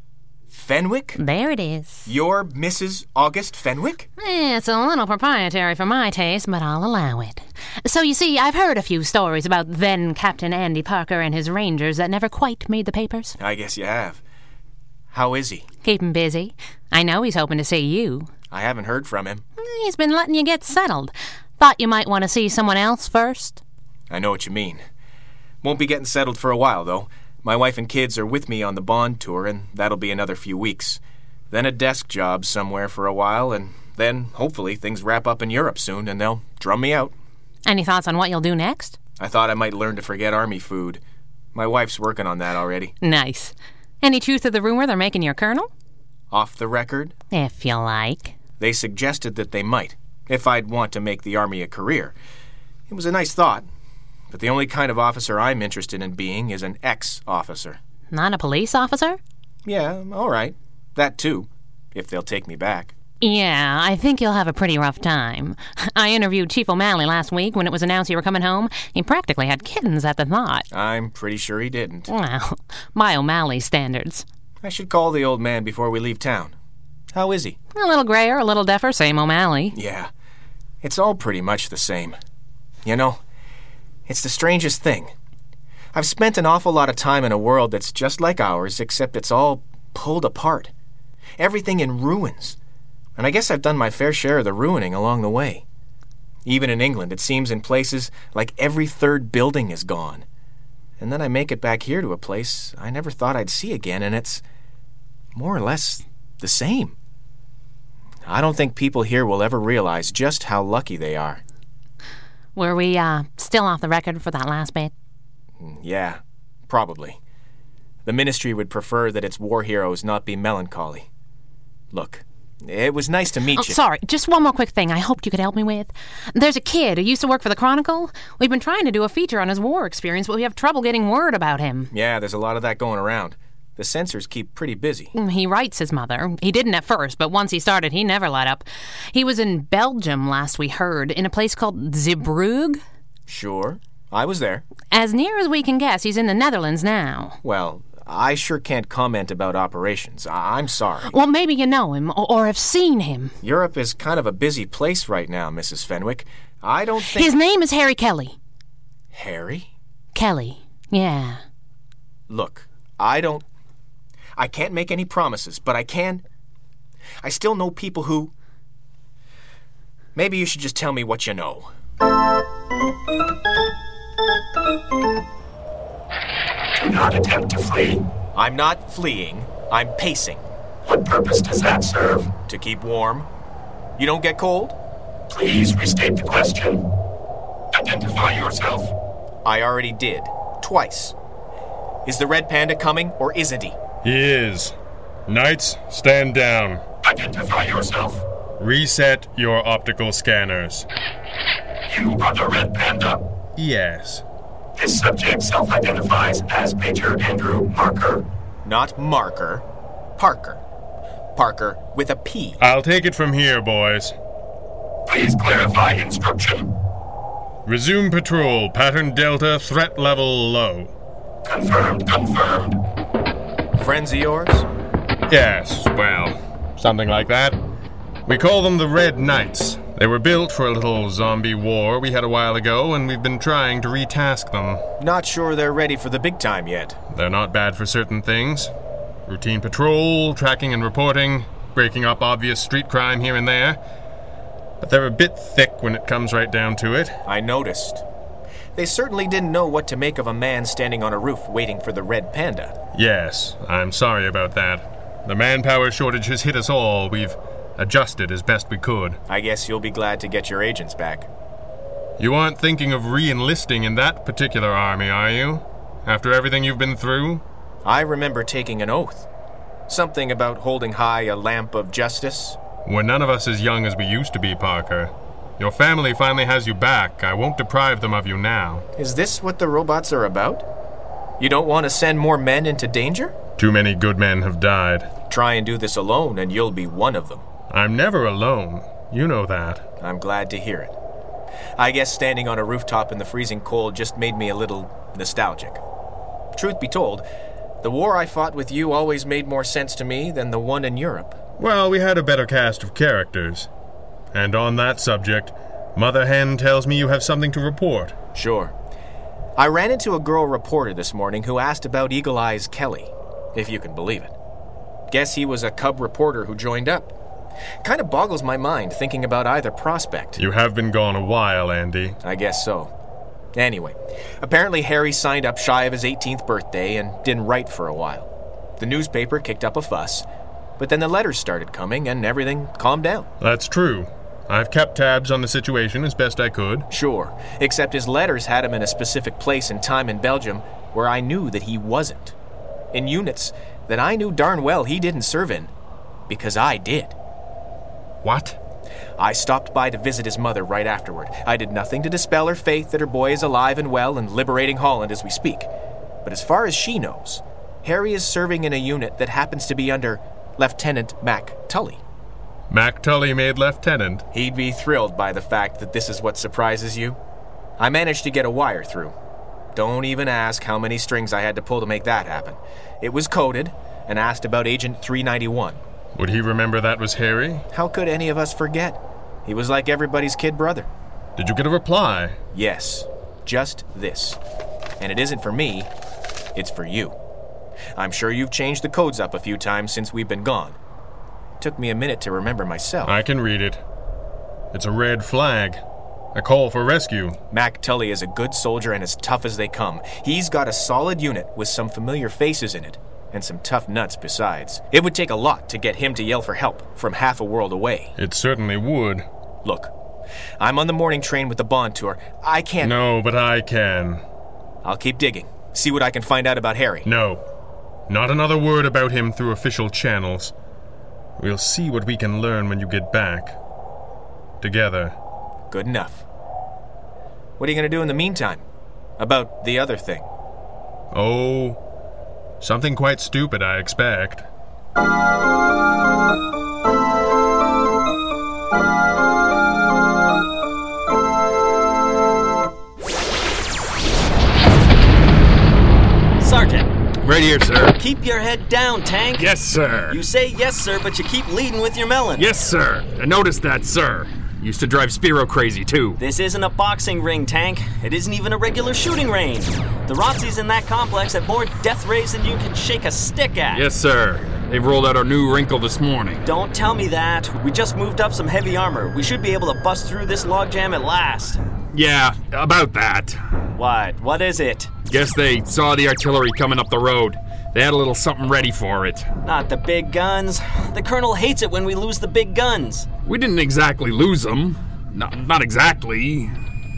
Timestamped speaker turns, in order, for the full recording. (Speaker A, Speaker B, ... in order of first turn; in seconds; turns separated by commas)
Speaker A: 0.5-1.2, Speaker B: 1.2-2.1, Speaker A: 2.1-4.1, Speaker B: 4.2-13.4, Speaker A: 13.4-14.2, Speaker A: 15.1-15.7, Speaker B: 15.8-18.3, Speaker A: 18.5-19.4, Speaker B: 19.6-23.6, Speaker A: 24.1-24.8, Speaker A: 25.6-37.1, Speaker B: 37.7-39.0, Speaker A: 39.2-41.0, Speaker A: 41.5-42.9, Speaker B: 43.0-45.7, Speaker A: 46.3-47.1, Speaker B: 47.3-48.4, Speaker A: 48.6-52.1, Speaker A: 52.9-53.6, Speaker A: 54.3-57.8, Speaker B: 58.1-59.2, Speaker A: 59.6-62.9, Speaker B: 63.2-70.7, Speaker A: 70.7-72.1, Speaker B: 72.1-74.2, Speaker A: 74.6-76.5, Speaker A: 77.1-77.6, Speaker B: 77.7-79.8, Speaker A: 79.7-80.1, Speaker A: 80.8-82.2, Speaker A: 82.8-83.2, Speaker A: 84.1-85.1, Speaker A: 85.9-90.7, Speaker A: 91.4-92.6, Speaker A: 93.2-95.6, Speaker A: 96.5-100.2, Speaker A: 101.0-104.4, Speaker A: 105.3-107.0, Speaker A: 108.3-111.4, Speaker B: 112.6-114.9, Speaker A: 115.6-117.2, Speaker A: 118.0-121.1, Speaker A: 121.9-123.8, Speaker B: 123.5-131.9, Speaker A: 131.9-135.1, Speaker B: 135.1-142.8, Speaker A: 143.3-144.6, Speaker B: 144.9-147.4, Speaker A: 147.4-151.1, Speaker B: 151.1-153.4, Speaker A: 153.4-157.3, Speaker B: 157.1-158.4, Speaker A: 159.1-159.7, Speaker B: 160.2-161.4, Speaker A: 162.3-163.4, Speaker A: 164.4-166.2, Speaker A: 167.2-168.3, Speaker A: 170.2-171.7, Speaker C: 176.8-178.1, Speaker A: 178.3-180.5, Speaker C: 180.9-182.3, Speaker A: 182.5-183.3, Speaker A: 184.0-184.8, Speaker C: 185.3-186.9, Speaker C: 187.7-188.9, Speaker A: 189.4-191.2, Speaker A: 192.1-193.8, Speaker D: 194.0-194.7, Speaker D: 195.3-196.8, Speaker C: 197.1-198.2, Speaker D: 198.6-200.9, Speaker C: 201.9-203.2, Speaker D: 203.6-204.2, Speaker C: 204.8-208.2, Speaker A: 208.7-209.6, Speaker A: 210.2-210.6, Speaker A: 211.4-212.6, Speaker D: 212.6-214.2, Speaker C: 215.1-216.7, Speaker D: 217.7-220.9, Speaker C: 221.5-222.8, Speaker A: 223.8-224.7, Speaker D: 225.3-227.6, Speaker D: 228.3-234.8, Speaker A: 235.0-237.0, Speaker D: 237.1-238.7, Speaker D: 239.3-243.8, Speaker D: 244.8-247.2, Speaker A: 247.2-248.0, Speaker A: 248.8-252.8, Speaker D: 252.9-259.2, Speaker A: 259.3-261.3, Speaker D: 262.2-267.4, Speaker A: 267.8-269.3, Speaker A: 269.9-272.6, Speaker D: 272.9-278.9, Speaker A: 279.0-280.6, Speaker A: 281.4-283.4, Speaker D: 283.6-285.1, Speaker A: 285.3-287.5, Speaker D: 287.7-289.9, Speaker A: 290.0-290.9, Speaker A: 291.8-295.8, Speaker A: 296.5-297.2, Speaker A: 297.8-301.4, Speaker D: 301.6-303.7, Speaker D: 304.3-308.2, Speaker A: 308.3-308.7, Speaker A: 309.6-314.3, Speaker A: 315.1-317.1, Speaker A: 317.8-320.4, Speaker D: 320.4-322.2, Speaker A: 322.2-322.9, Speaker A: 323.5-330.3, Speaker A: 330.8-333.3, Speaker D: 333.4-336.9, Speaker A: 336.9-342.4, Speaker A: 342.9-345.7, Speaker A: 346.3-347.1, Speaker D: 348.2-348.6, Speaker A: 349.2-355.7, Speaker A: 356.2-362.0, Speaker D: 362.7-364.2, Speaker A: 364.3-367.2, Speaker A: 367.8-369.1, Speaker A: 369.7-375.8, Speaker D: 376.1-377.6, Speaker A: 377.7-380.9, Speaker D: 381.4-382.4, Speaker A: 382.5-384.4, Speaker A: 385.0-385.9, Speaker A: 386.6-387.2, Speaker A: 388.0-390.8, Speaker A: 391.6-393.2, Speaker D: 393.1-393.8, Speaker D: 394.7-395.8, Speaker D: 396.4-397.4, Speaker A: 397.5-408.1, Speaker D: 408.2-409.3, Speaker A: 409.6-409.9, Speaker A: 410.6-412.9, Speaker D: 412.8-414.2, Speaker A: 414.8-417.1, Speaker D: 417.1-417.4, Speaker D: 418.1-420.5, Speaker D: 421.4-423.6, Speaker D: 424.6-425.2, Speaker A: 425.7-426.2, Speaker A: 427.6-428.6, Speaker A: 429.2-430.3, Speaker D: 431.1-431.8, Speaker D: 432.6-434.5, Speaker E: 446.4-446.9, Speaker F: 447.2-447.9, Speaker E: 448.0-449.5, Speaker F: 449.4-450.2, Speaker E: 450.1-452.5, Speaker F: 452.4-456.2, Speaker E: 456.2-463.9, Speaker F: 463.7-466.5, Speaker E: 466.4-471.6, Speaker F: 471.9-473.4, Speaker E: 473.7-474.9, Speaker F: 475.1-479.3, Speaker E: 479.4-483.1, Speaker F: 483.2-486.5